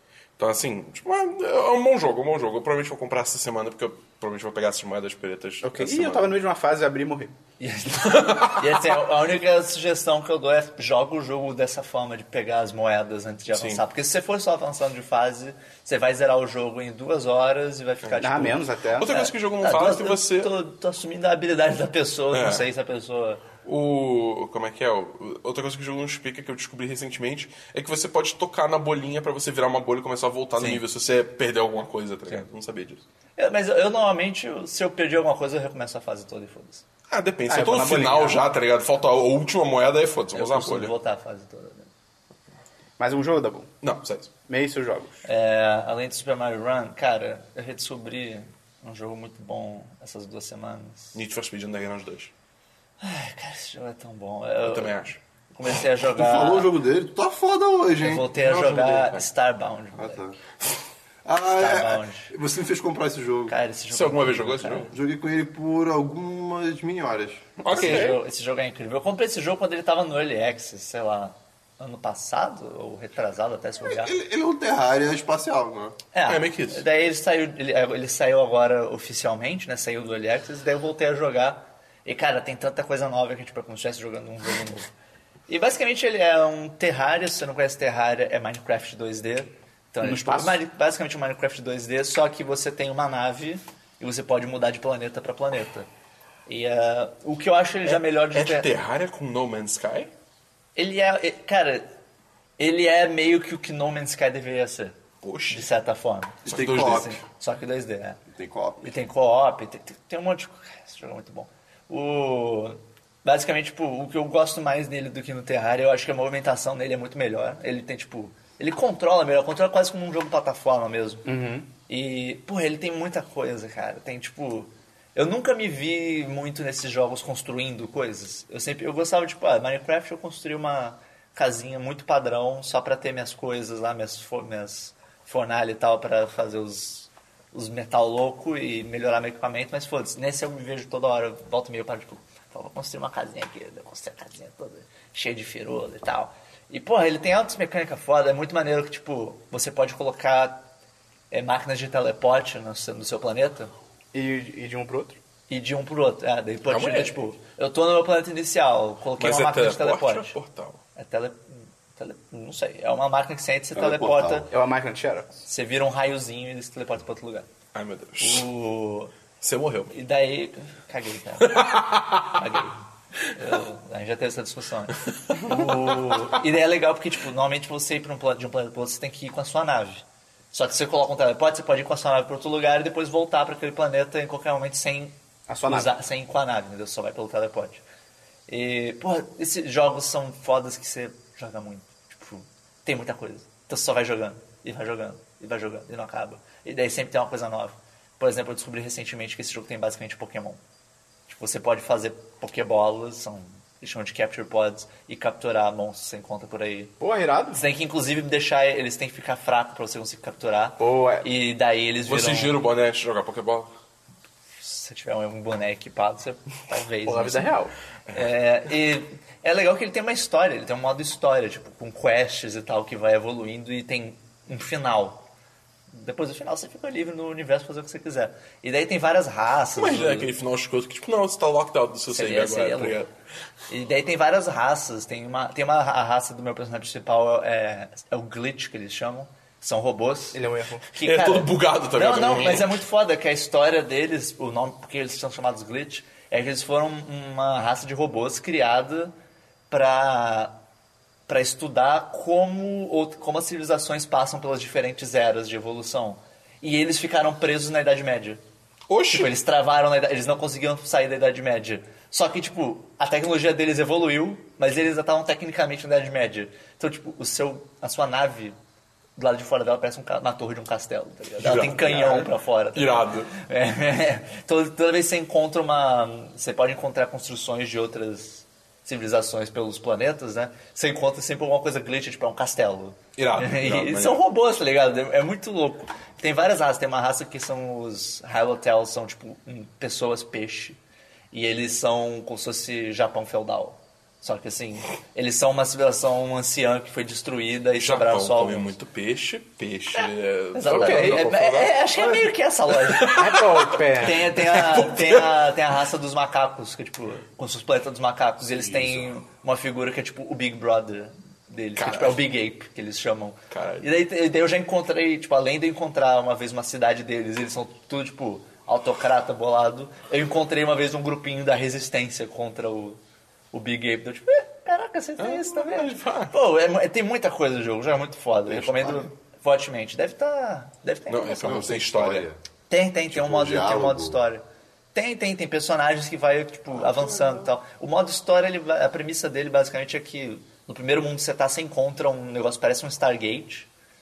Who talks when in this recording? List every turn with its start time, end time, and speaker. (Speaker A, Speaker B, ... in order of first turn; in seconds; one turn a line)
Speaker A: 0.4-6.4
Speaker B: 5.6-7.3
Speaker C: 7.6-23.4
Speaker A: 7.9-9.0
Speaker A: 13.5-13.8
Speaker B: 18.2-19.1
Speaker A: 19.0-20.5
Speaker A: 22.3-22.6
Speaker A: 23.6-33.0
Speaker C: 30.6-30.8
Speaker C: 33.4-36.9
Speaker A: 37.1-40.9
Speaker B: 37.5-38.5
Speaker C: 40.3-41.9
Speaker B: 43.0-43.7
Speaker A: 43.8-44.3
Speaker B: 44.5-45.2
Speaker C: 45.2-51.2
Speaker A: 51.1-52.3
Speaker C: 53.0-56.7
Speaker A: 54.6-55.2
Speaker D: 56.1-58.3
Speaker C: 58.0-60.2
Speaker A: 58.3-59.3
Speaker D: 60.0-60.4
Speaker D: 61.2-63.5
Speaker C: 61.5-62.3
Speaker C: 63.5-64.9
Speaker A: 63.9-64.9
Speaker D: 64.9-68.0
Speaker A: 67.6-68.2
Speaker C: 67.7-74.1
Speaker D: 73.8-76.0
Speaker C: 76.1-84.9
Speaker A: 76.3-76.8
Speaker C: 85.5-95.9
Speaker B: 90.0-90.6
Speaker C: 96.5-98.7
Speaker A: 97.8-100.1
Speaker C: 100.8-101.9
Speaker C: 102.6-104.9
Speaker A: 105.2-105.7
Speaker C: 105.5-108.2
Speaker D: 106.5-107.1
Speaker A: 106.5-107.2
Speaker D: 108.3-108.9
Speaker C: 108.8-121.3
Speaker B: 121.2-121.7
Speaker C: 121.9-150.6
Speaker C: 151.3-153.7
Speaker B: 154.1-155.2
Speaker C: 155.5-160.3
Speaker A: 156.7-157.2
Speaker A: 159.2-160.8
Speaker C: 160.9-164.5
Speaker D: 163.8-164.5
Speaker B: 164.5-165.3
Speaker C: 165.4-167.5
Speaker A: 167.7-168.5
Speaker C: 168.2-169.1
Speaker A: 169.4-169.9
Speaker C: 169.9-171.7
Speaker A: 171.4-172.3
Speaker C: 172.3-172.8
Speaker C: 173.3-185.1
Speaker B: 185.5-185.9
Speaker C: 185.7-187.8
Speaker C: 188.5-200.6
Speaker C: 201.3-206.9
Speaker B: 207.0-207.6
Speaker C: 207.5-212.6
Speaker B: 210.8-211.3
Speaker A: 212.1-213.7
Speaker C: 214.6-217.6
Speaker B: 217.1-217.7
Speaker C: 218.1-225.2
Speaker C: 225.9-230.3
Speaker A: 229.8-233.1
Speaker C: 232.1-233.0
Speaker C: 233.7-240.4
Speaker B: 240.3-240.8
Speaker C: 240.9-249.1
Speaker A: 241.0-242.8
Speaker C: 249.7-250.5
Speaker C: 251.3-258.4
Speaker A: 258.9-259.3
Speaker C: 259.1-268.6
Speaker C: 269.2-290.8
Speaker A: 271.4-273.3
Speaker A: 283.2-284.2
Speaker C: 291.3-298.7
Speaker A: 297.8-305.4
Speaker C: 299.9-303.3
Speaker B: 300.7-301.2
Speaker B: 303.1-304.4
Speaker C: 303.9-323.0
Speaker A: 311.8-312.2
Speaker A: 313.5-313.9
Speaker C: 323.5-331.7
Speaker A: 325.2-326.3
Speaker D: 328.5-329.1
Speaker A: 331.1-332.3
Speaker D: 331.4-332.4
Speaker C: 332.7-334.4
Speaker D: 333.1-334.2
Speaker C: 334.9-343.7